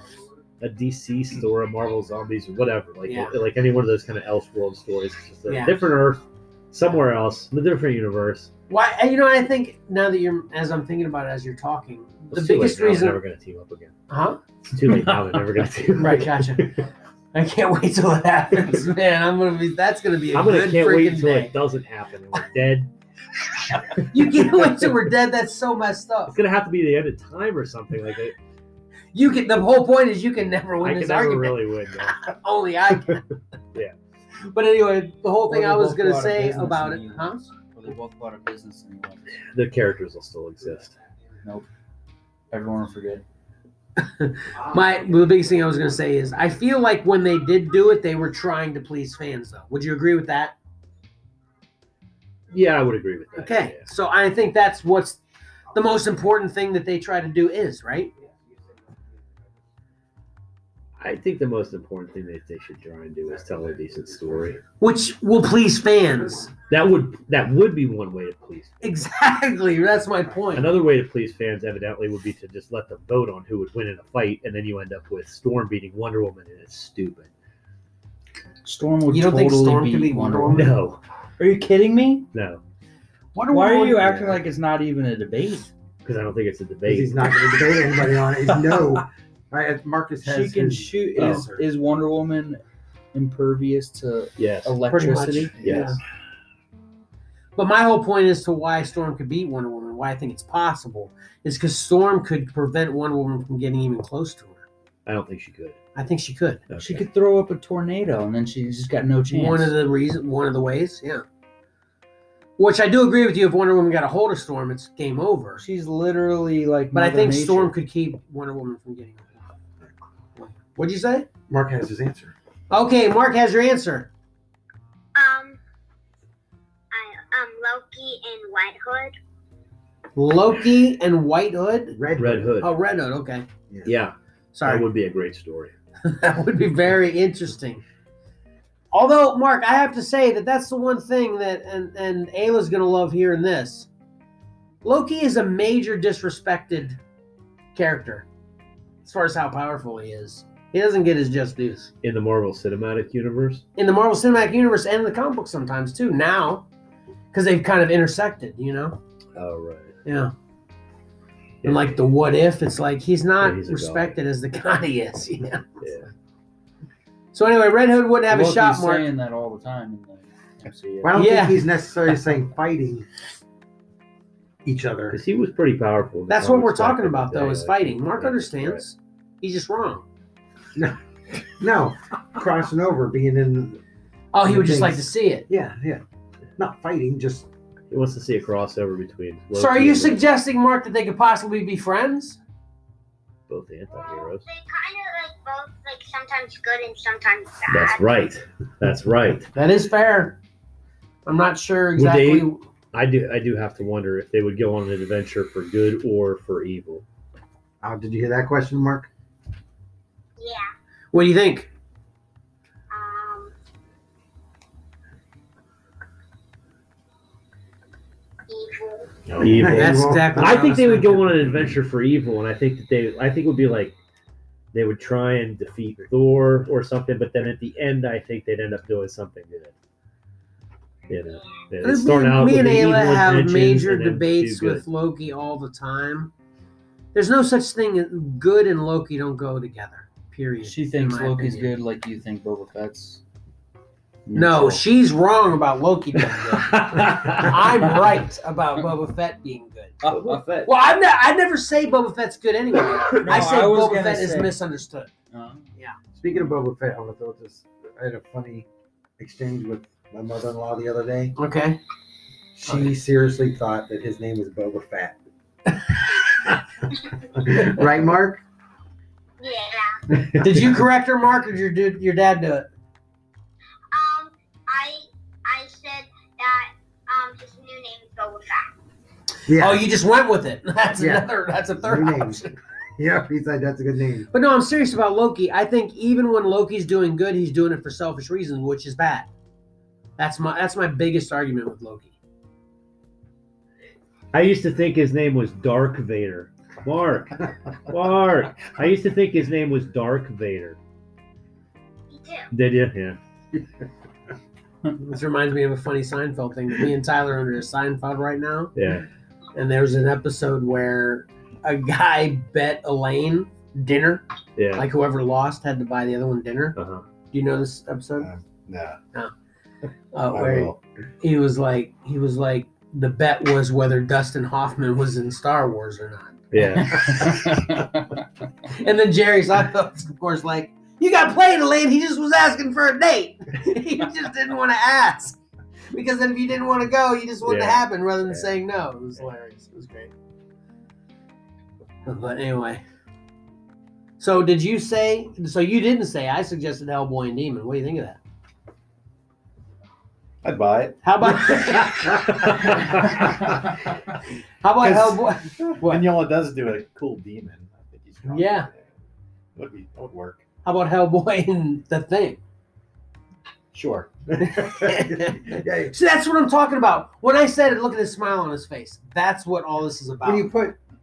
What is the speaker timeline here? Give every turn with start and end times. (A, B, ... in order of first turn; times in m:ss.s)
0:00.6-0:08.5 A
0:03.0-0:03.3 B
0:05.5-0:05.8 B
0:08.7-0:13.2 B
0:12.3-0:14.0 A
0:14.1-0:14.4 B
0:14.6-0:16.8 A
0:16.0-0:16.8 B
0:17.3-0:21.5 B
0:20.3-0:22.9 A
0:23.8-0:24.7 A
0:23.9-0:26.3 B
0:26.3-0:28.4 A
0:29.1-0:33.2 B
0:30.8-0:32.3 A
0:34.5-0:37.4 B
0:35.5-0:39.4 C
0:39.4-0:41.0 A
0:42.5-0:43.2 C
0:44.0-0:50.5 B
0:52.5-0:53.8 A
0:53.4-0:55.2 B
0:55.7-0:58.1 B
1:01.0-1:04.6 A
1:04.8-1:06.5 B
1:06.7-1:08.8 A
1:08.8-1:10.7 B
1:10.5-1:17.3 A
1:18.6-1:20.7 C
1:19.1-1:20.7 B
1:20.5-1:21.0 A
1:21.4-1:22.3 C
1:22.3-1:22.6 A
1:23.3-1:24.2 B
1:23.5-1:25.7 C
1:26.0-1:27.8 A
1:26.8-1:31.6 D
1:30.2-1:32.6 C
1:31.2-1:31.4 A
1:33.1-1:35.5 C
1:34.4-1:34.7 A
1:34.9-1:36.0 B
1:35.6-1:36.0 A
1:37.6-1:44.6 B
1:45.0-1:45.8 A
1:45.9-1:46.6 B
1:46.7-1:47.0 A
1:46.8-1:49.7 C
1:49.3-1:51.2 B
1:52.6-1:55.6 B
1:55.6-1:57.7 C
1:56.9-1:59.5 B
2:00.4-2:01.3 B
2:01.5-2:02.3 D
2:02.7-2:04.1 B
2:05.1-2:05.6 E
2:06.9-2:09.2 E
2:10.2-2:12.0 B
2:11.9-2:12.6 D
2:12.2-2:12.7 A
2:12.6-2:13.5 B
2:13.8-2:15.7 A
2:14.5-2:14.8 B
2:16.0-2:17.8 B
2:18.9-2:23.9 B
2:24.8-2:27.0 B
2:27.7-2:28.3 B
2:29.0-2:31.9 B
2:32.0-2:33.6 A
2:33.8-2:36.7 B
2:37.3-2:39.0 B
2:39.4-2:40.0 A
2:40.0-2:40.3 B
2:41.6-2:42.0 A
2:41.6-2:45.8 B
2:43.4-2:44.1 A
2:45.8-2:46.1 A
2:47.3-2:49.0 B
2:48.3-2:51.2 C
2:51.0-2:53.1 D
2:51.1-2:51.6 B
2:54.6-2:55.2 D
2:55.1-2:58.8 A
2:56.3-3:00.0 B
3:00.8-3:03.8 D
3:04.3-3:05.5 B
3:04.4-3:06.0 D
3:06.6-3:07.5 D
3:07.9-3:10.2 A
3:09.5-3:12.4 B
3:13.5-3:14.4 A
3:13.9-3:18.0 E
3:17.7-3:19.5 A
3:19.5-3:20.4 B
3:21.2-3:22.6 B
3:22.0-3:27.0 A
3:27.8-3:29.1 D
3:30.4-3:30.7 E
3:31.1-3:31.7 B
3:32.9-3:33.5 E
3:38.5-3:39.2 E
3:39.3-3:39.6 F
3:39.4-3:44.0 A
3:39.4-3:40.6 D
3:39.6-3:41.3 B
3:44.7-3:49.7 A
3:51.1-3:54.8 A
3:51.8-3:56.3 B
3:57.1-4:01.7 B
4:00.6-4:03.2 C
4:04.2-4:04.8 C
4:04.3-4:10.0 B
4:06.5-4:07.8 A
4:10.0-4:10.4 C
4:10.1-4:10.7 A
4:10.6-4:15.1 B
4:13.2-4:14.5 C
4:15.3-4:15.6 C
4:16.1-4:21.3 D
4:21.4-4:21.8 B
4:22.5-4:25.2 D
4:27.3-4:28.4 D
4:29.4-4:30.0 E
4:30.1-4:32.7 B
4:33.9-4:38.7 E
4:39.5-4:39.8 D
4:39.5-4:42.6 B
4:41.0-4:41.3 D
4:41.8-4:42.4 D
4:43.0-4:44.3 D
4:44.3-4:49.3 B
4:50.2-4:52.1 B
4:54.3-5:00.8 A
5:02.1-5:02.5 E
5:02.5-5:03.2 A
5:05.0-5:08.7 B
5:08.8-5:09.0 A
5:09.5-5:16.8 B
5:14.6-5:14.9 A
5:16.8-5:17.0 A
5:17.3-5:18.3 B
5:18.2-5:19.0 F
5:20.1-5:27.6 B
5:20.3-5:20.8 F
5:26.5-5:27.4 A
5:26.8-5:28.2 C
5:28.6-5:35.4 B
5:35.9-5:40.1 B
5:37.4-5:37.8 A
5:42.0-5:42.8 B
5:44.2-5:48.2 B
5:50.4-5:53.9 F
5:51.0-5:52.8 B
5:52.5-5:52.8 A
5:54.6-5:56.1 B
5:54.7-5:58.9 F
5:58.3-5:58.7 B
5:59.6-6:00.4 F
6:00.6-6:02.4 B
6:03.7-6:04.1 F
6:04.3-6:06.0 D
6:04.4-6:10.5 B
6:10.2-6:10.8 D